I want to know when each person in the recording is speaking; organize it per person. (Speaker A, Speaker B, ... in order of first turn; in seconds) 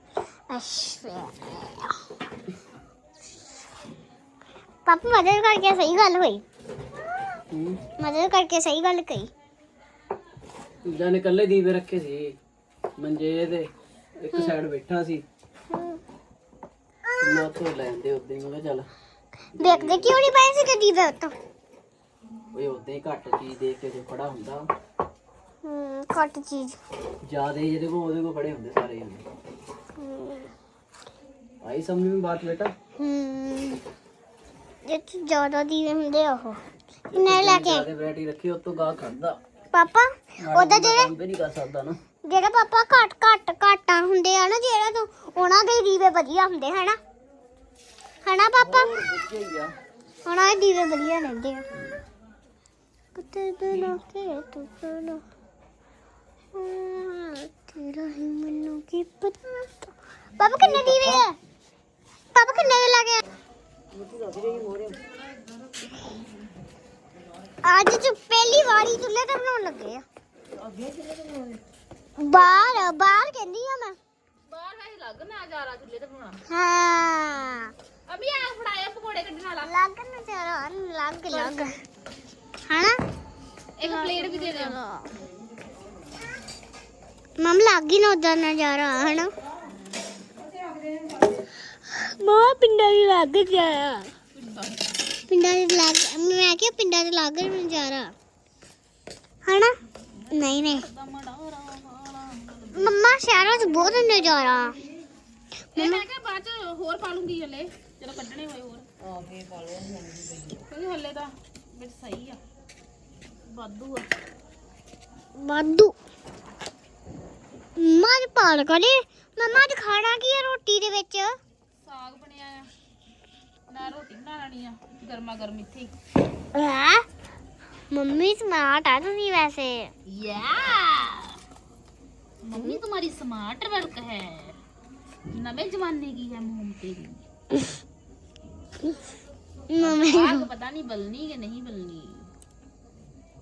Speaker A: 0.5-2.0, 4.8-6.4, 8.0-9.3, 14.3-14.6, 15.7-16.0, 17.1-17.4, 19.6-21.3, 25.6-26.8, 29.9-30.5, 33.0-33.8, 34.8-36.6, 37.1-37.9, 39.7-41.1, 42.2-47.0, 48.2-48.9, 50.2-51.7, 53.1-55.2, 56.5-61.4, 62.3-63.2, 67.6-70.0, 72.2-74.0, 76.5-77.7, 79.6-81.8, 82.7-83.0, 83.8-85.0, 87.4-89.3, 91.8-94.1, 95.3-98.1, 99.5-99.7, 100.3-100.8, 102.7-104.7, 105.8-106.0, 115.4-115.9, 117.8-121.3, 126.5-127.1, 127.9-129.9, 132.5-132.8, 137.5-137.8, 139.7-140.5
Speaker B: 7.5-7.8, 10.8-12.3, 13.0-15.2, 17.2-18.9, 19.6-20.2, 22.5-24.7, 27.3-29.2, 31.6-32.7, 37.1-39.4, 40.4-42.0, 48.6-49.7, 64.2-64.8
Speaker C: 72.3-72.9, 74.5-76.4, 78.1-79.8, 81.3-81.7, 83.8-84.8, 94.3-94.8, 100.3-104.1, 105.8-108.9, 110.5-112.4, 113.5-114.1, 121.8-122.7, 123.7-125.9, 130.1-131.4, 132.4-134.6, 135.3-137.2, 139.8-142.3